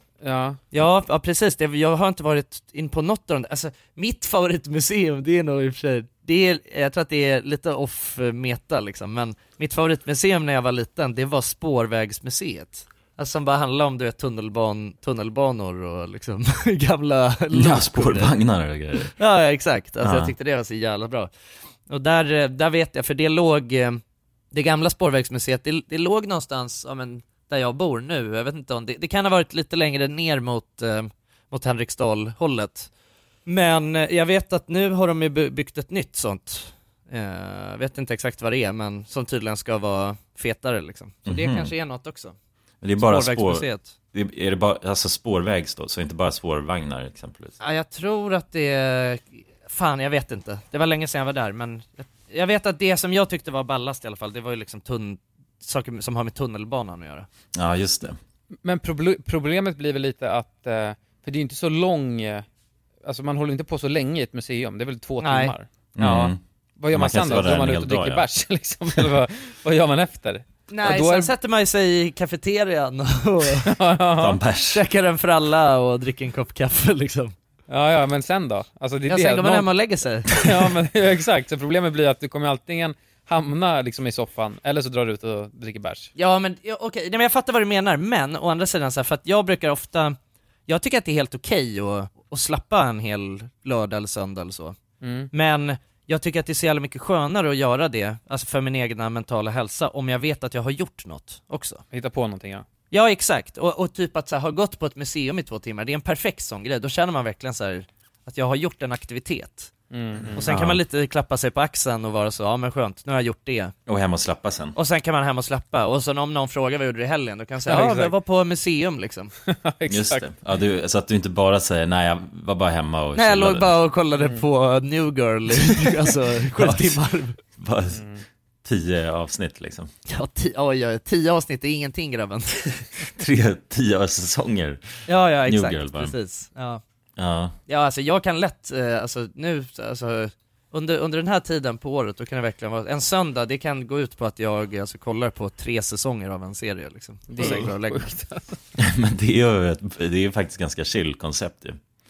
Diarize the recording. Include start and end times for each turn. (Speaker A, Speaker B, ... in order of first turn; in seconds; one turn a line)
Speaker A: 0.2-0.6
Speaker B: 0.7-18.3
Speaker C: 17.5-19.1
Speaker B: 19.2-21.3
Speaker C: 20.0-20.4
Speaker B: 21.9-24.0
Speaker B: 24.5-32.9
Speaker B: 33.5-42.4
Speaker C: 41.3-41.7
Speaker C: 42.8-47.6
Speaker B: 43.0-44.0
Speaker B: 47.6-57.3
Speaker C: 57.5-58.2
Speaker A: 58.6-62.5
Speaker A: 63.0-71.3
Speaker B: 65.2-65.5
Speaker C: 66.0-66.4
Speaker C: 66.9-68.3
Speaker B: 70.7-73.7
Speaker A: 73.7-74.4
Speaker C: 74.2-74.8
Speaker B: 74.7-77.3
Speaker A: 77.7-79.7
Speaker B: 79.1-80.4
Speaker A: 80.3-86.1
Speaker B: 86.2-90.2
Speaker B: 90.7-94.8
Speaker A: 95.0-95.3
Speaker B: 95.3-101.8
Speaker A: 101.9-102.7
Speaker B: 102.9-109.7
Speaker A: 109.9-110.5
Speaker C: 110.3-110.8
Speaker B: 110.4-113.7
Speaker C: 113.9-114.8
Speaker B: 114.8-119.3
Speaker A: 117.7-118.1
Speaker A: 119.5-120.3
Speaker C: 119.9-123.8
Speaker B: 123.2-127.4
Speaker C: 126.6-127.0
Speaker C: 127.6-128.0
Speaker A: 127.9-128.2
Speaker C: 128.6-129.9
Speaker B: 130.1-132.8
Speaker C: 133.2-134.8
Speaker B: 135.1-136.8
Speaker C: 135.5-136.2
Speaker C: 137.2-137.5
Speaker B: 137.7-148.1
Speaker A: 147.3-148.6
Speaker C: 148.8-151.8